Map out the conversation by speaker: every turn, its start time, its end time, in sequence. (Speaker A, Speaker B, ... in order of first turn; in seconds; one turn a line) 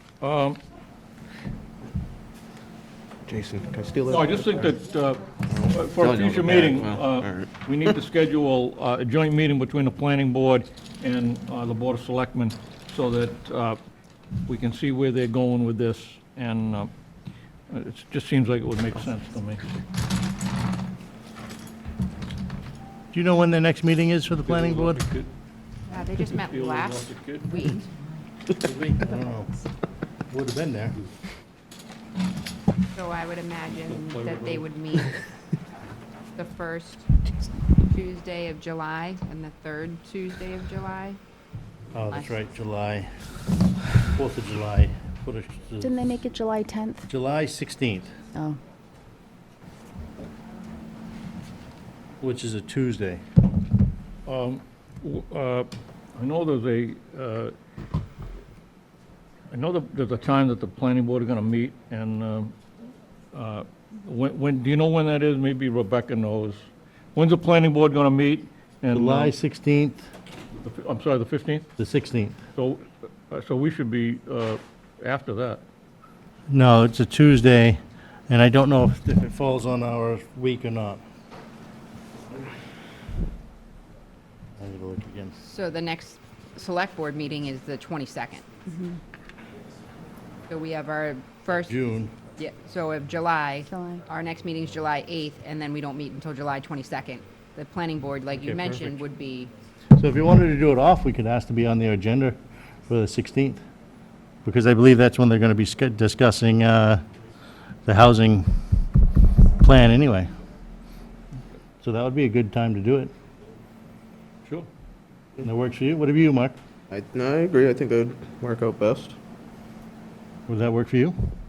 Speaker A: 0.2-0.6
Speaker B: 3.2-4.4
Speaker A: 4.1-13.8
Speaker B: 5.5-7.5
Speaker A: 14.4-16.9
Speaker A: 17.7-19.6
Speaker C: 23.1-25.0
Speaker A: 24.4-25.3
Speaker D: 25.9-27.9
Speaker A: 26.1-27.6
Speaker C: 28.5-29.6
Speaker C: 30.3-30.9
Speaker D: 32.9-35.2
Speaker A: 34.1-34.6
Speaker D: 36.4-37.1
Speaker D: 37.8-41.2
Speaker C: 41.9-43.1
Speaker C: 44.0-45.9
Speaker E: 45.8-47.0
Speaker C: 47.1-48.1
Speaker C: 52.2-53.2
Speaker A: 54.2-57.5
Speaker A: 59.5-62.5
Speaker A: 63.3-66.6
Speaker A: 67.1-69.3
Speaker C: 68.9-70.1
Speaker A: 70.6-71.7
Speaker C: 71.8-72.4
Speaker A: 72.6-75.6
Speaker C: 76.5-81.0
Speaker C: 84.6-85.3
Speaker D: 85.4-88.5
Speaker E: 88.7-89.0
Speaker D: 90.5-91.8
Speaker C: 91.6-92.1
Speaker D: 92.4-99.5
Speaker E: 93.7-94.0
Speaker C: 100.0-102.4
Speaker C: 102.9-103.6
Speaker C: 104.4-107.0
Speaker C: 107.8-108.6
Speaker C: 109.6-110.3
Speaker C: 111.8-113.1
Speaker C: 115.4-116.5
Speaker B: 116.9-119.2
Speaker C: 120.5-121.1